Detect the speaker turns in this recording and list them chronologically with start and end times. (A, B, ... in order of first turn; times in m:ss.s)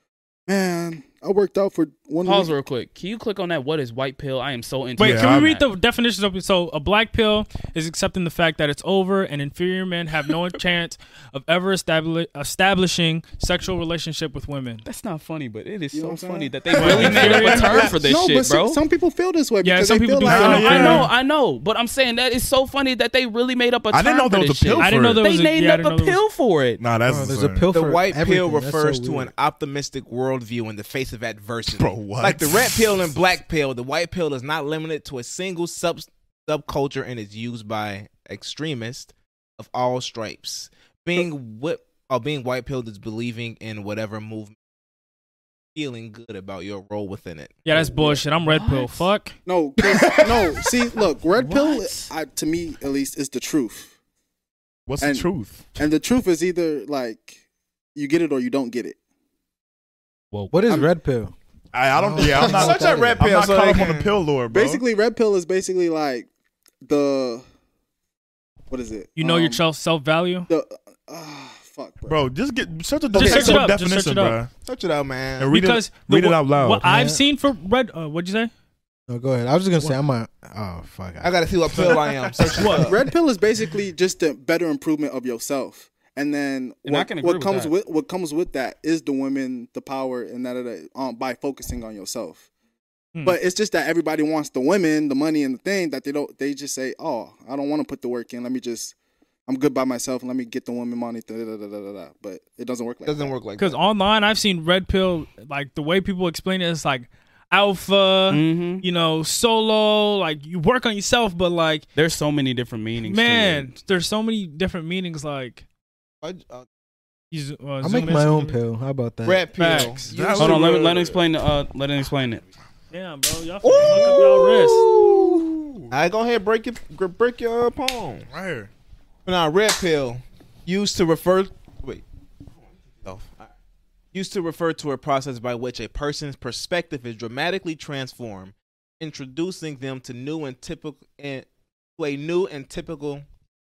0:00.5-0:02.5 A
0:02.2-0:05.6 B
0:05.0-0:05.5 C
0:05.0-0:14.8 D
0:14.8-0:18.8 B
0:15.9-0:20.7 A
0:16.7-0:17.9 D
0:16.9-0:17.6 C
0:19.6-0:21.1 D
0:20.2-0:21.1 C
0:20.3-0:26.8 B
0:23.9-0:25.2 C
0:24.8-0:26.2 D
0:26.8-0:27.7 C
0:27.0-0:29.3 E
0:27.7-0:44.5 F
0:31.8-0:33.1 C
0:45.7-0:48.2 F
0:47.6-0:49.4 D
0:48.4-0:49.1 B
0:49.4-0:53.9 A
0:49.8-0:50.4 F
0:51.4-0:52.1 B
0:54.9-0:55.8 C
0:55.0-0:57.4 A
0:57.9-0:59.0 A
1:00.5-1:01.3 E
1:01.7-1:04.8 C
1:01.9-1:03.3 E
1:02.2-1:04.2 F
1:04.5-1:06.3 A
1:06.8-1:07.4 A
1:08.7-1:09.6 A
1:09.2-1:10.5 D
1:10.5-1:12.2 A
1:12.1-1:14.5 C
1:13.1-1:14.4 D
1:13.2-1:13.6 A
1:14.6-1:15.5 F
1:15.4-1:16.8 C
1:15.5-1:18.5 D
1:16.8-1:17.2 E
1:19.1-1:22.0 E
1:21.2-1:23.0 F
1:22.6-1:22.8 D
1:22.7-1:32.4 A
1:26.8-1:27.7 B
1:33.2-1:38.9 A
1:39.5-1:43.3 A
1:43.0-1:43.8 F
1:43.6-1:51.8 D
1:48.3-1:48.8 B
1:52.0-1:53.7 B
1:53.0-1:55.6 D
1:56.2-1:56.6 F
1:57.3-1:58.6 D
1:57.8-1:59.5 E
1:59.2-2:00.9 F
1:59.6-2:00.1 D
2:00.1-2:01.2 C
2:00.4-2:02.4 B
2:02.9-2:04.8 D
2:03.6-2:08.3 F
2:05.6-2:05.9 C
2:08.3-2:08.7 C
2:09.2-2:12.0 F
2:13.0-2:13.5 F
2:14.1-2:21.4 F
2:22.0-2:23.2 F